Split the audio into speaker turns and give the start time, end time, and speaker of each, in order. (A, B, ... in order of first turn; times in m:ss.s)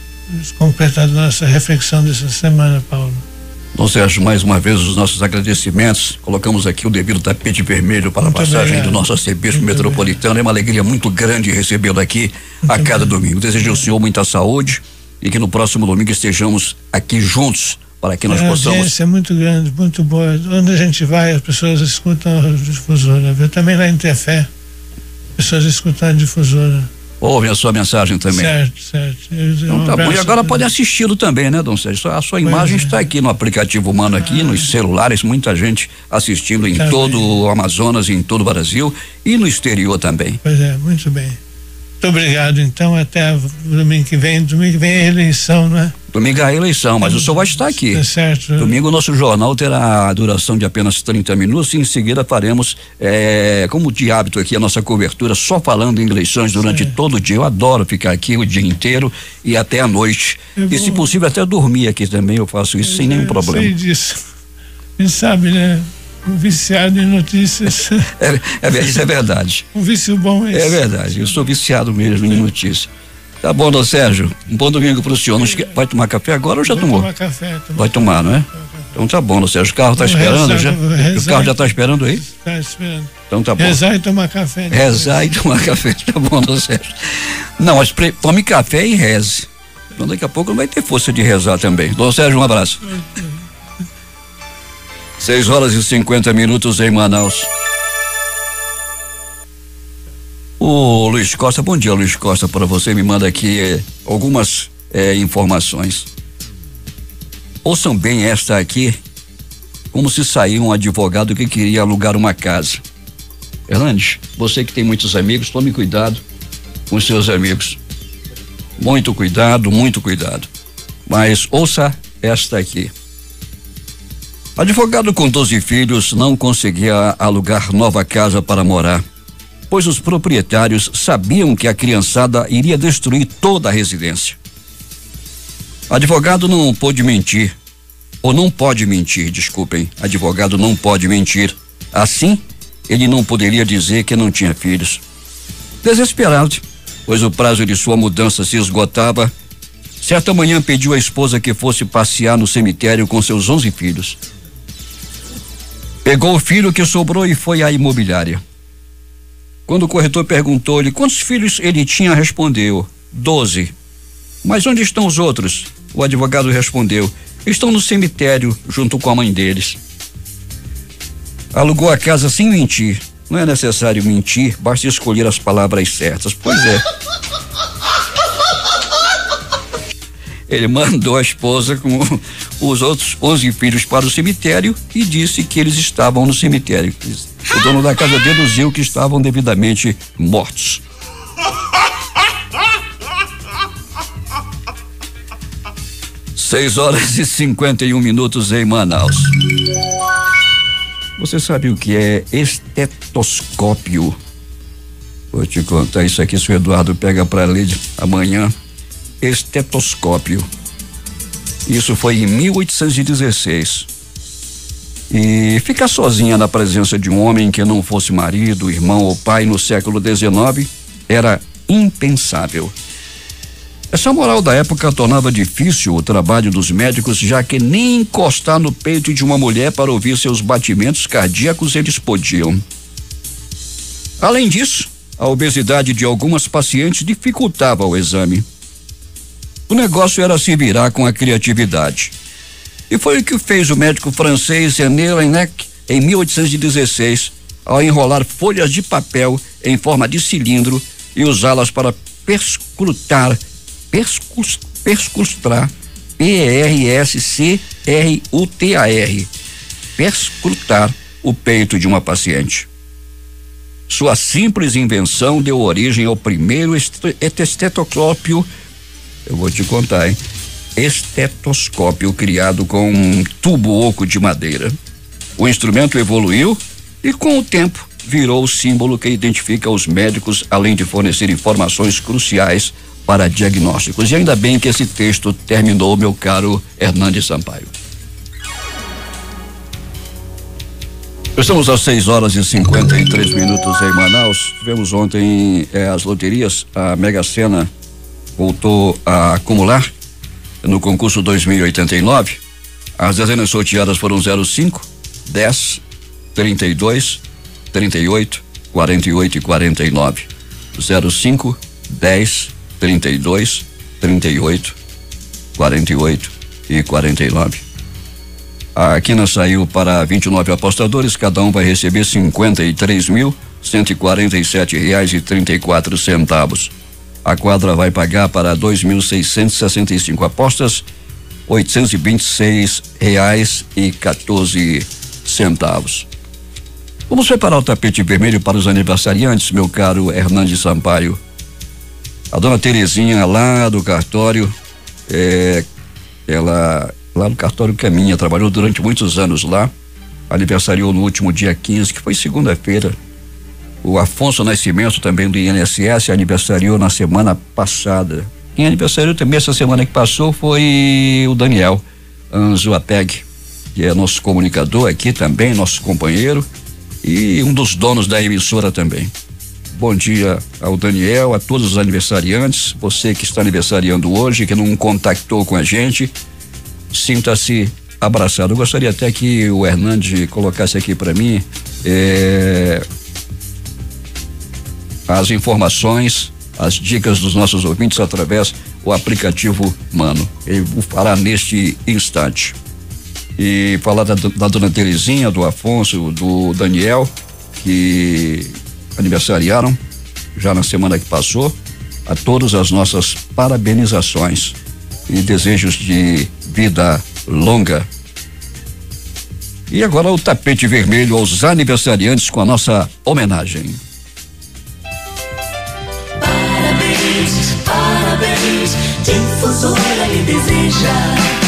0:00.3-0:03.3 A
0:03.8-0:18.9 B
0:08.2-0:10.2 A
0:12.6-0:13.2 A
0:18.3-0:24.5 A
0:25.4-0:26.9 A
0:27.2-0:28.5 B
0:28.3-0:30.7 A
0:29.7-0:40.4 B
0:32.4-0:33.0 A
0:36.8-0:37.4 A
0:40.4-0:41.4 A
0:42.0-0:46.0 A
0:46.1-0:48.0 B
0:47.0-0:48.8 A
0:48.6-1:03.7 B
0:56.6-0:56.9 A
1:00.6-1:01.1 A
1:02.8-1:04.2 A
1:05.0-1:08.1 A
1:08.1-1:09.6 B
1:09.7-1:11.4 A
1:10.5-1:12.9 B
1:13.4-1:17.1 B
1:16.7-1:18.8 A
1:17.8-1:22.2 B
1:20.0-1:25.3 A
1:23.3-1:23.8 B
1:24.7-1:26.9 B
1:27.6-1:32.9 B
1:35.2-1:37.5 B
1:40.6-1:46.1 B
1:47.6-1:49.0 B
1:49.9-1:52.8 B
1:53.7-1:56.2 B
1:56.9-1:57.8 B
1:58.8-2:00.5 B
2:01.1-2:02.9 B
2:04.6-2:09.0 B
2:09.7-2:14.4 B
2:15.9-2:17.5 B
2:18.2-2:25.0 B
2:25.8-2:29.3 B
2:30.0-2:34.2 B
2:36.0-2:38.4 B
2:39.7-2:43.7 B
2:44.4-2:49.8 B
2:51.5-2:56.8 B
3:00.5-3:10.8 B
3:16.4-3:19.4 B
3:21.2-3:24.2 B
3:25.3-3:28.5 B
3:29.2-3:30.5 B
3:31.7-3:33.9 B
3:35.1-3:42.7 B
3:43.9-3:52.6 B
3:54.2-3:58.5 B
3:59.7-4:02.1 B
4:02.9-4:13.4 B
4:13.9-4:19.3 B
4:20.0-4:22.7 B
4:23.9-4:28.5 B
4:29.3-4:30.2 B
4:30.8-4:34.8 B
4:35.4-4:47.7 B
4:51.4-4:57.7 B
4:58.4-4:59.9 B
5:00.6-5:02.4 B
5:03.0-5:05.8 B
5:06.4-5:07.2 B
5:07.7-5:14.8 B
5:15.6-5:17.6 B
5:18.8-5:26.7 B
5:27.2-5:30.8 B
5:31.5-5:36.1 B
5:37.1-5:41.2 B
5:42.3-5:44.5 B
5:45.1-5:45.7 B
5:46.3-5:49.7 B
5:50.3-5:53.0 B
5:53.8-6:06.5 B
6:07.0-6:09.1 B
6:09.8-6:16.1 B
6:16.9-6:22.8 B
6:25.1-6:32.6 B
6:33.4-6:39.8 B
6:40.4-6:41.6 B
6:42.1-6:44.6 B
6:45.1-6:47.9 B
6:49.7-6:53.8 B
6:56.2-7:01.3 C